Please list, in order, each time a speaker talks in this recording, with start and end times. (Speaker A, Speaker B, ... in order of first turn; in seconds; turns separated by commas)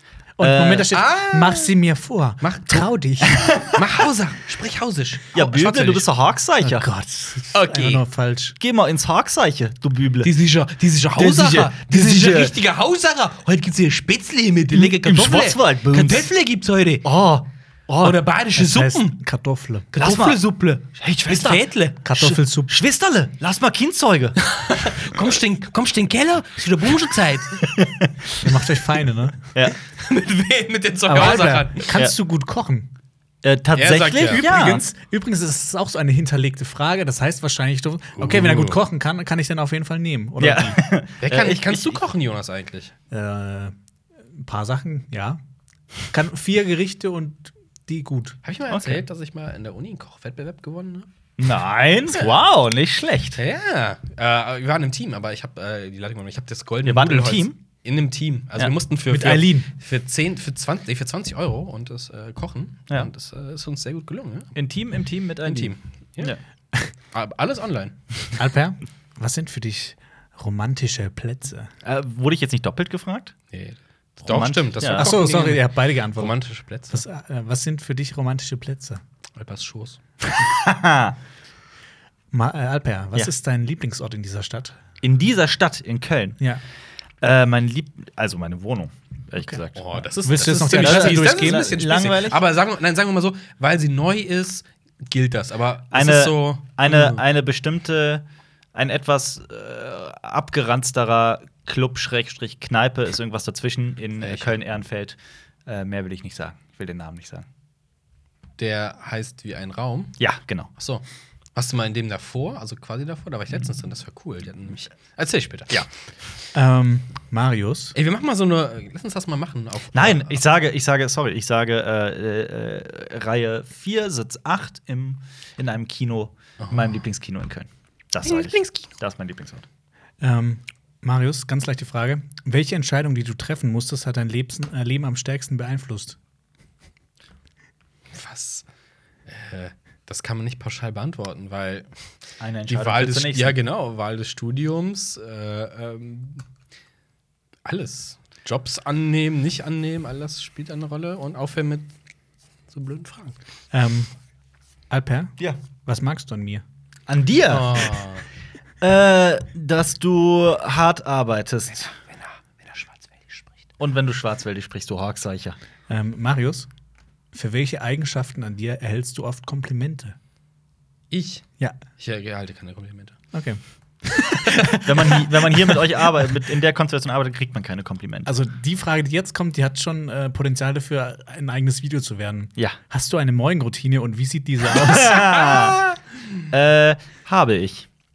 Speaker A: 0.4-3.6, Speaker B: 0.4-0.9, Speaker C: 0.9-1.7, Speaker C: 2.4-2.9, Speaker B: 3.3-3.8, Speaker C: 3.7-6.1, Speaker B: 5.3-6.8, Speaker A: 6.6-8.6, Speaker C: 7.5-8.0, Speaker B: 8.6-10.3, Speaker C: 10.2-17.0, Speaker B: 11.2-12.5, Speaker B: 14.7-16.3, Speaker B: 17.0-18.2, Speaker C: 18.0-19.2, Speaker A: 18.5-19.9, Speaker C: 19.9-22.4, Speaker B: 20.0-20.4, Speaker B: 20.9-21.6, Speaker A: 22.0-22.7, Speaker B: 22.7-24.4, Speaker C: 24.4-27.7, Speaker B: 27.7-28.4, Speaker A: 28.4-29.4, Speaker C: 29.9-31.9, Speaker A: 31.1-32.9, Speaker B: 33.4-34.9, Speaker C: 33.7-34.8, Speaker A: 34.3-40.8, Speaker C: 38.2-38.8, Speaker B: 40.4-42.0, Speaker C: 41.2-42.9, Speaker A: 43.1-43.7, Speaker A: 44.3-45.4, Speaker A: 46.1-48.4, Speaker C: 48.4-51.1, Speaker B: 48.7-49.0, Speaker B: 51.4-53.4, Speaker C: 53.4-64.5, Speaker B: 56.8-57.6, Speaker A: 59.1-59.7, Speaker B: 64.5-66.4, Speaker C: 65.4-66.3, Speaker C: 67.1-67.9, Speaker A: 68.4-71.7, Speaker B: 71.8-73.3, Speaker C: 73.5-77.0, Speaker B: 74.2-75.2, Speaker A: 74.9-76.4, Speaker A: 76.9-79.0, Speaker C: 79.4-80.0, Speaker B: 80.3-81.2, Speaker A: 82.3-84.8, Speaker B: 85.0-86.4, Speaker B: 87.2-92.4, Speaker C: 89.8-97.2, Speaker A: 90.2-91.8, Speaker B: 95.9-98.2, Speaker B: 98.7-107.5, Speaker C: 104.2-104.5, Speaker C: 108.6-110.2, Speaker B: 110.2-110.7, Speaker C: 110.8-111.0, Speaker C: 111.5-115.8, Speaker A: 116.5-117.9, Speaker C: 117.9-120.4, Speaker B: 119.9-129.7, Speaker C: 126.6-127.0, Speaker C: 128.2-128.9, Speaker A: 130.2-136.2, Speaker C: 138.1-138.6, Speaker C: 139.2-141.9, Speaker B: 142.4-143.6, Speaker C: 142.7-146.4, Speaker C: 147.6-151.9, Speaker C: 152.7-153.3, Speaker A: 153.7-154.1, Speaker A: 154.9-155.3, Speaker A: 155.8-156.6, Speaker B: 157.1-158.1, Speaker C: 157.5-158.2, Speaker B: 158.8-161.9, Speaker C: 162.0-163.5, Speaker B: 163.8-165.6, Speaker A: 165.9-166.7, Speaker A: 167.3-170.2, Speaker C: 171.1-171.4, Speaker C: 172.0-173.2, Speaker A: 173.3-175.8, Speaker B: 174.7-178.3, Speaker A: 178.2-185.6, Speaker B: 184.7-185.8, Speaker B: 186.5-187.9